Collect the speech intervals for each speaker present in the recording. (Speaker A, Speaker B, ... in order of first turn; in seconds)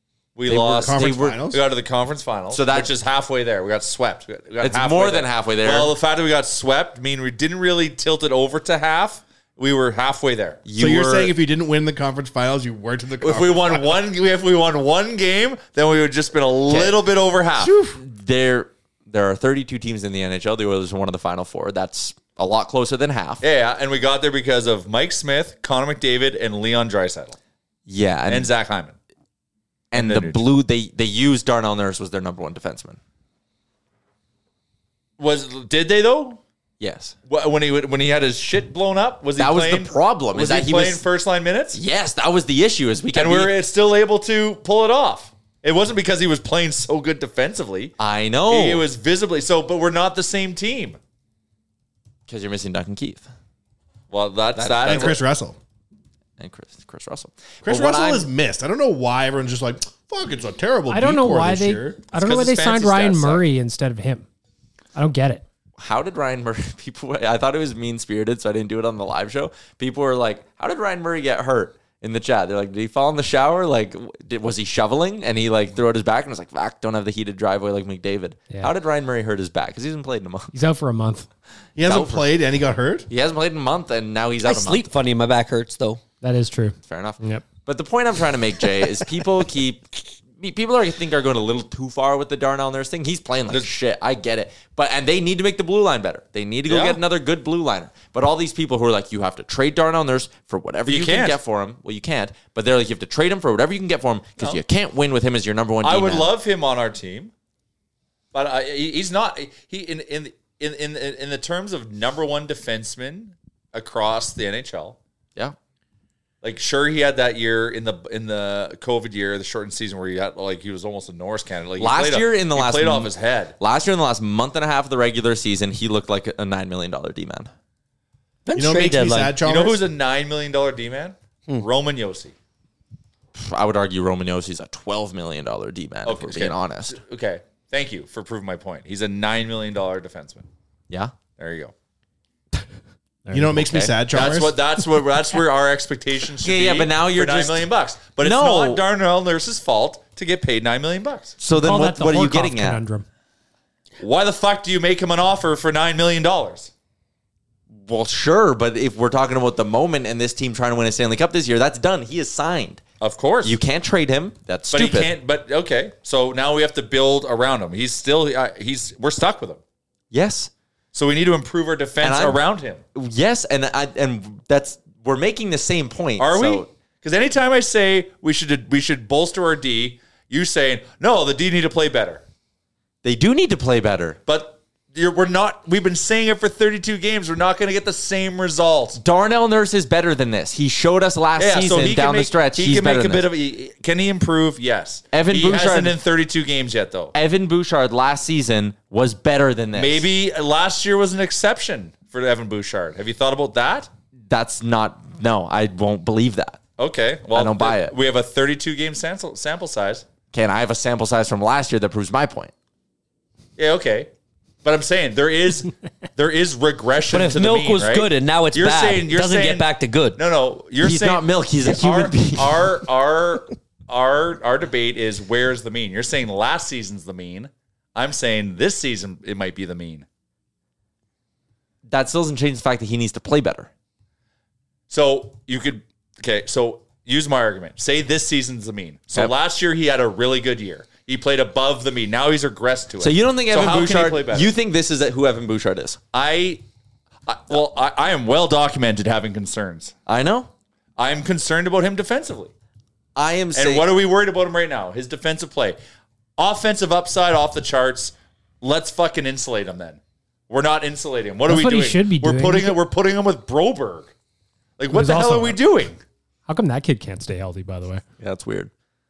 Speaker A: 0.3-10.6, 13.2-17.8, 23.4-27.4, 28.3-28.9, 29.9-30.4, 35.2-36.4, 37.3-41.8, 43.1-47.9, 48.5-51.0, 54.1-55.2, 62.1-63.4, 96.7-97.0, 100.8-101.4, 105.8-107.3, 108.3-115.0, 116.4-123.5, 129.4-132.3, 136.0-140.5, 141.4-141.7, 144.1-151.4, 154.0-156.7, 163.0-163.6, 164.7-169.6, 170.9-172.8, 176.2-182.2, 184.3-189.0, 191.4-197.1, 199.7-203.9, 206.8-210.0, 213.6-214.1, 214.6-230.1, 234.9-244.5, 246.1-246.6, 247.3-249.9, 251.0-252.5, 253.5-255.8, 256.4-264.1, 264.8-266.0
Speaker B: 0.5-1.6, 10.8-14.0, 54.8-55.6, 57.6-62.0, 81.8-83.1, 128.6-129.8, 143.3-144.6
Speaker C: 0.8-1.4, 2.5-2.9, 4.6-5.9, 10.6-11.3, 16.7-17.0, 17.6-23.4, 27.9-28.5, 29.9-33.0, 36.8-37.1, 39.4-41.0, 41.7-43.5, 48.0-48.8, 52.3-53.3, 54.6-55.1, 56.4-58.3, 65.8-80.5, 81.8-82.3, 83.1-84.9, 86.8-106.3, 121.8-127.5, 133.3-137.0, 143.5-143.9, 146.4-147.7, 148.2-148.8, 151.4-152.8, 157.8-162.8, 163.4-165.1, 170.1-170.5, 172.0-172.4, 172.9-176.7, 183.0-184.2, 189.0-193.2, 195.1-196.0, 197.1-200.1, 204.3-206.6, 207.3-207.9, 210.3-212.5, 220.8-222.7, 231.9-233.7, 243.0-246.0, 250.1-250.5, 253.2-253.9, 268.2-268.7
Speaker D: 60.9-64.2, 64.9-65.4, 80.5-81.3, 86.2-87.5, 143.2-143.6, 151.6-153.1, 261.4-262.8, 264.9-265.6, 266.5-268.0
Speaker E: 84.4-86.0, 128.4-129.4, 217.1-220.2